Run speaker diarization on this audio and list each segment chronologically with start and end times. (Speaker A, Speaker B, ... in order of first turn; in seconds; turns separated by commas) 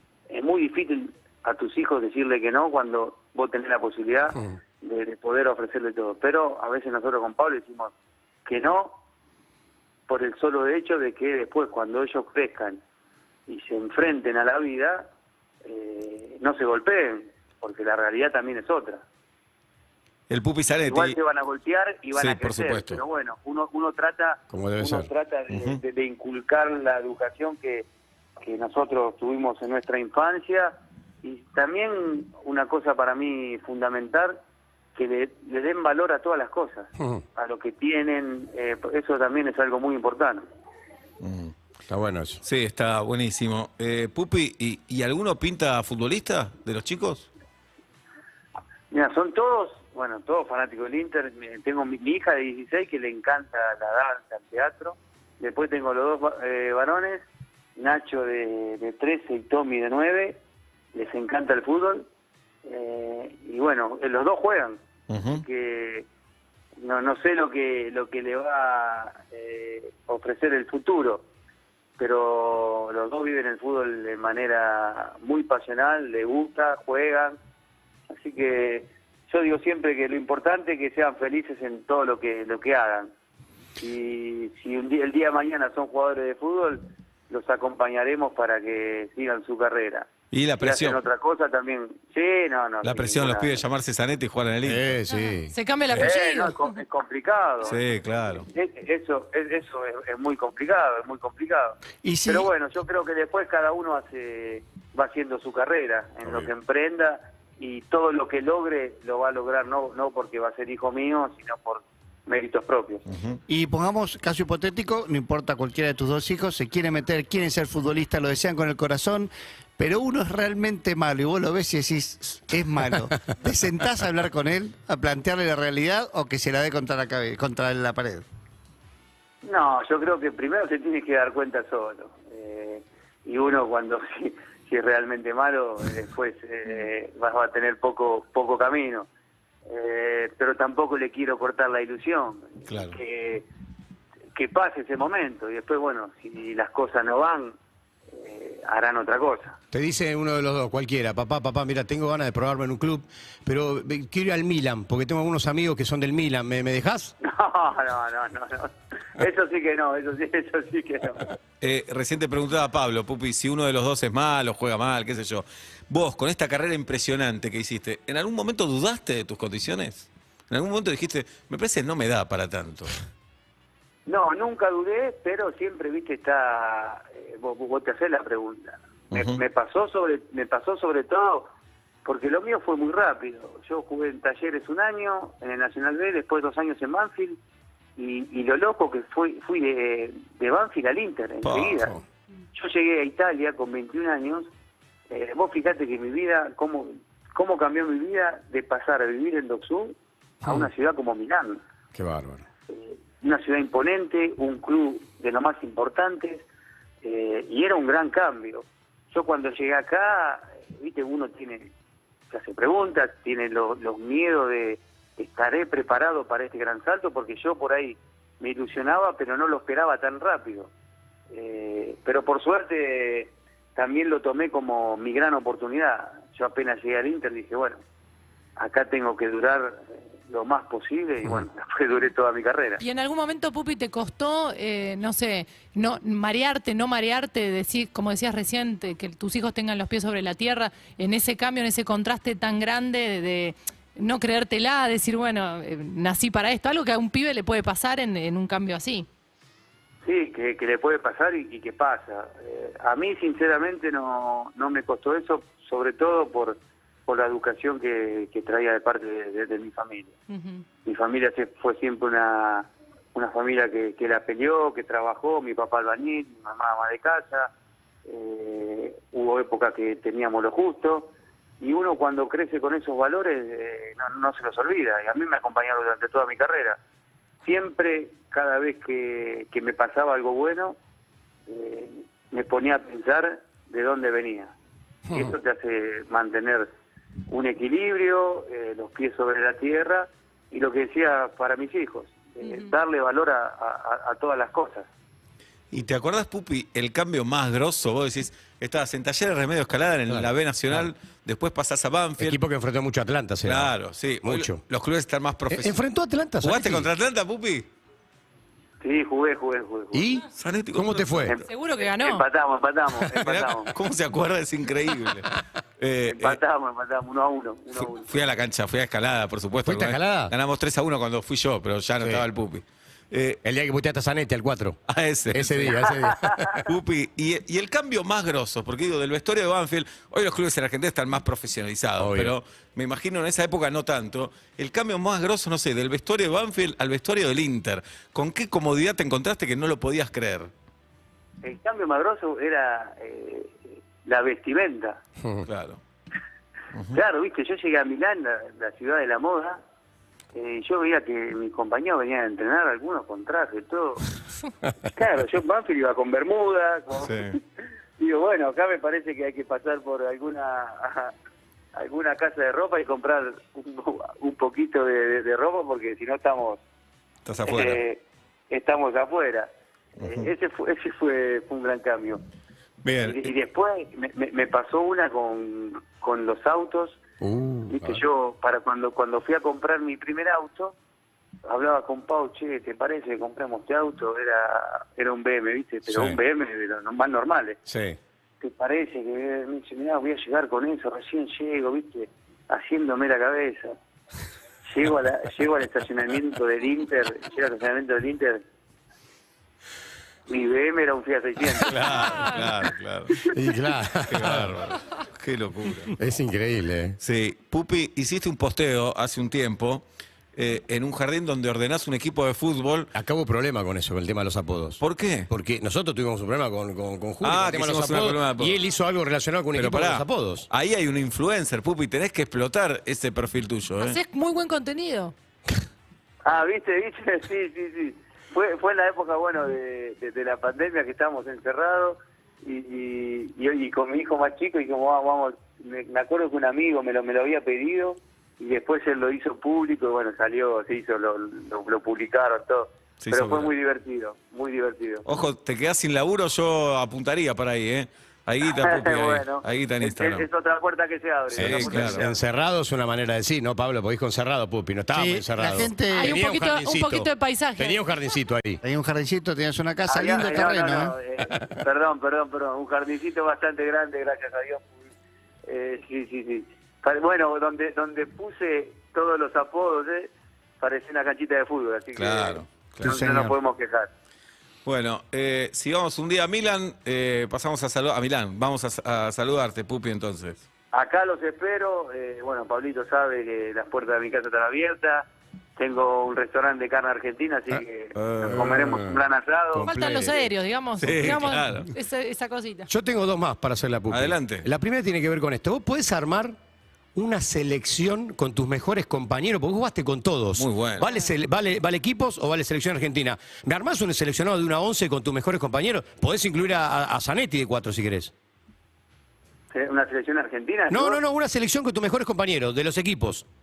Speaker A: 0.3-7.9, Speaker A: 8.5-9.0, Speaker A: 10.1-12.8, Speaker A: 13.5-15.1, Speaker A: 15.6-19.0, Speaker B: 20.3-21.2, Speaker A: 20.9-27.9, Speaker B: 22.1-23.0, Speaker C: 24.5-25.1, Speaker B: 25.5-25.8, Speaker A: 28.4-34.4, Speaker A: 35.0-40.5, Speaker C: 37.0-37.2, Speaker B: 41.2-41.5, Speaker C: 41.9-42.4, Speaker B: 42.4-47.3, Speaker A: 48.9-57.3, Speaker A: 57.8-60.4, Speaker A: 60.9-62.1, Speaker A: 62.6-64.8, Speaker B: 65.1-65.4, Speaker A: 65.3-66.1, Speaker A: 66.8-71.3, Speaker A: 72.0-77.4, Speaker A: 78.1-83.1, Speaker A: 83.8-93.6, Speaker B: 90.3-91.0, Speaker B: 92.8-95.0, Speaker C: 94.6-95.5, Speaker D: 95.1-96.7, Speaker A: 95.9-97.8, Speaker B: 97.7-98.5, Speaker A: 98.4-113.1, Speaker E: 102.0-102.5, Speaker B: 113.1-113.4, Speaker E: 113.5-128.2, Speaker A: 129.4-139.1, Speaker A: 139.7-143.5, Speaker B: 142.7-143.0, Speaker A: 144.3-147.6, Speaker A: 148.1-149.6, Speaker C: 149.7-157.1, Speaker A: 157.2-161.3, Speaker B: 161.6-173.0, Speaker A: 174.1-181.5, Speaker B: 179.1-179.4, Speaker A: 182.1-187.4, Speaker A: 188.0-192.0, Speaker B: 191.4-191.8, Speaker A: 192.5-194.5, Speaker A: 195.1-201.6, Speaker C: 200.4-200.7, Speaker C: 201.9-202.4, Speaker A: 202.7-206.4, Speaker A: 207.0-211.7, Speaker A: 212.3-220.7, Speaker A: 221.3-227.8, Speaker A: 228.6-232.8, Speaker D: 232.8-249.1, Speaker A: 250.1-260.1, Speaker D: 260.3-260.6, Speaker A: 260.9-267.5, Speaker A: 268.1-276.8, Speaker A: 277.4-280.8, Speaker A: 281.5-284.5, Speaker C: 285.1-285.4, Speaker A: 285.1-286.7, Speaker A: 287.3-294.9, Speaker D: 292.4-292.7, Speaker B: 295.7-302.4, Speaker C: 300.1-300.9, Speaker C: 302.2-304.6, Speaker B: 303.4-305.8, Speaker C: 305.5-306.9, Speaker B: 306.4-307.7, Speaker A: 308.8-310.1, Speaker C: 309.9-311.4, Speaker B: 310.3-311.4, Speaker A: 311.3-313.7, Speaker D: 311.5-312.2, Speaker B: 313.2-316.4, Speaker A: 316.1-318.1, Speaker B: 318.0-323.4, Speaker C: 319.7-320.3, Speaker C: 322.0-322.3, Speaker C: 323.4-324.8, Speaker B: 324.9-325.9, Speaker C: 325.3-326.7, Speaker A: 326.1-326.4, Speaker B: 326.6-340.5, Speaker C: 332.0-332.4, Speaker A: 341.4-345.0, Speaker C: 345.2-345.5, Speaker B: 345.5-345.8, Speaker A: 346.9-349.6, Speaker A: 350.3-354.1, Speaker A: 354.9-357.4, Speaker B: 357.0-357.4, Speaker A: 358.0-361.1, Speaker A: 361.7-366.6, Speaker B: 367.3-367.8, Speaker A: 367.4-372.2, Speaker B: 370.0-370.3, Speaker B: 372.8-373.3, Speaker A: 373.0-377.0, Speaker C: 377.2-378.0, Speaker A: 377.7-380.8, Speaker A: 381.5-387.6, Speaker C: 385.9-386.2, Speaker C: 387.7-388.0, Speaker A: 388.4-393.8, Speaker A: 394.7-398.4, Speaker A: 400.3-401.9, Speaker B: 401.6-403.3, Speaker D: 402.1-402.4, Speaker C: 403.2-404.6, Speaker B: 404.1-406.0, Speaker C: 405.9-407.0, Speaker B: 407.0-412.9, Speaker C: 412.9-420.5, Speaker B: 414.8-415.3, Speaker B: 417.2-418.6, Speaker B: 419.6-424.0, Speaker D: 423.8-425.1, Speaker A: 426.2-445.1, Speaker B: 443.0-443.5, Speaker B: 445.1-450.3, Speaker A: 448.4-452.2, Speaker C: 451.4-458.6, Speaker B: 451.4-452.0, Speaker E: 454.9-456.3, Speaker D: 455.9-457.8, Speaker E: 458.6-461.0, Speaker A: 459.9-464.8, Speaker A: 465.5-473.9, Speaker B: 472.0-473.0, Speaker E: 472.8-473.4, Speaker B: 474.6-480.4, Speaker A: 480.7-489.8, Speaker B: 487.9-488.6, Speaker C: 488.2-490.3, Speaker D: 489.7-492.7, Speaker B: 490.8-491.7, Speaker C: 492.7-496.4, Speaker B: 493.9-494.5, Speaker C: 496.9-508.1, Speaker B: 500.4-500.9, Speaker A: 509.5-511.0, Speaker C: 510.7-513.2